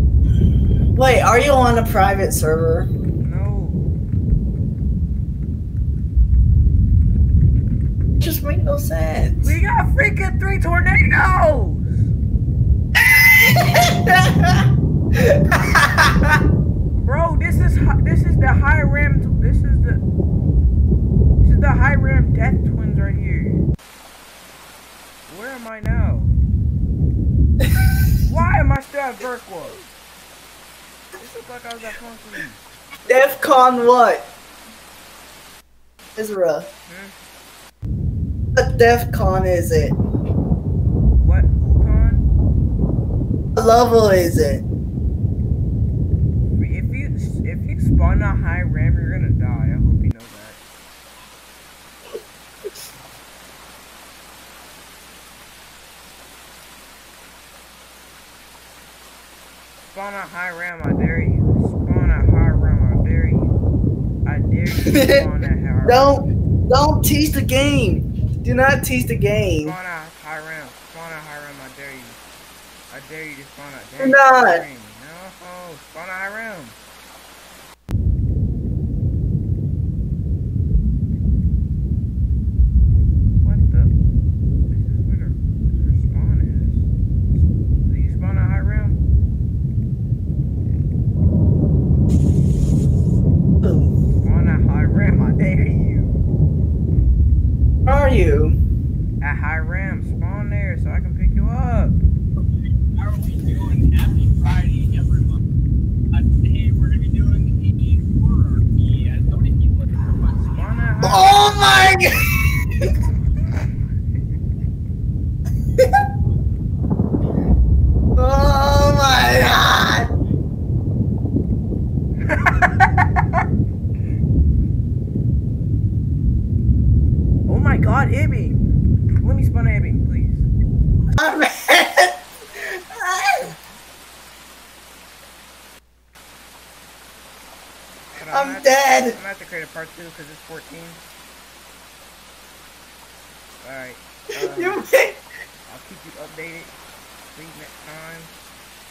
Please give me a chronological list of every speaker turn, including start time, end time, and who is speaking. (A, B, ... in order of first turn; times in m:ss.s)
0:01.0-0:02.9 A
0:03.2-0:03.9 B
0:08.2-0:09.5 A
0:09.4-0:12.1 B
0:13.1-0:16.4 A
0:17.0-0:20.0 B
0:21.4-0:23.7 B
0:25.3-0:26.4 B
0:28.2-0:29.8 B
0:31.2-0:33.9 B
0:33.0-0:34.3 A
0:36.2-0:36.7 A
0:36.9-0:37.2 B
0:38.6-0:40.0 A
0:41.2-0:42.3 B
0:43.6-0:44.6 A
0:46.5-0:50.6 B
0:59.8-1:03.5 B
1:04.2-1:06.2 B
1:04.8-1:05.2 A
1:05.8-1:09.8 A
1:09.6-1:12.2 B
1:12.9-1:16.8 B
1:14.0-1:14.6 A
1:23.4-1:23.9 B
1:24.7-1:29.0 B
1:33.6-1:34.0 A
1:34.1-1:36.2 B
1:37.9-1:38.6 A
1:39.2-1:42.0 B
1:43.0-1:45.4 C
1:46.2-1:49.9 C
1:50.2-1:52.1 B
1:51.0-1:52.3 A
1:53.4-1:53.9 B
1:58.2-2:00.1 A
2:02.3-2:02.9 B
2:07.5-2:08.7 B
2:09.2-2:10.5 B
2:11.2-2:13.5 A
2:18.2-2:21.0 B
2:18.3-2:19.2 A
2:23.6-2:24.8 B
2:24.4-2:25.2 A
2:25.6-2:26.8 B
2:27.2-2:28.3 B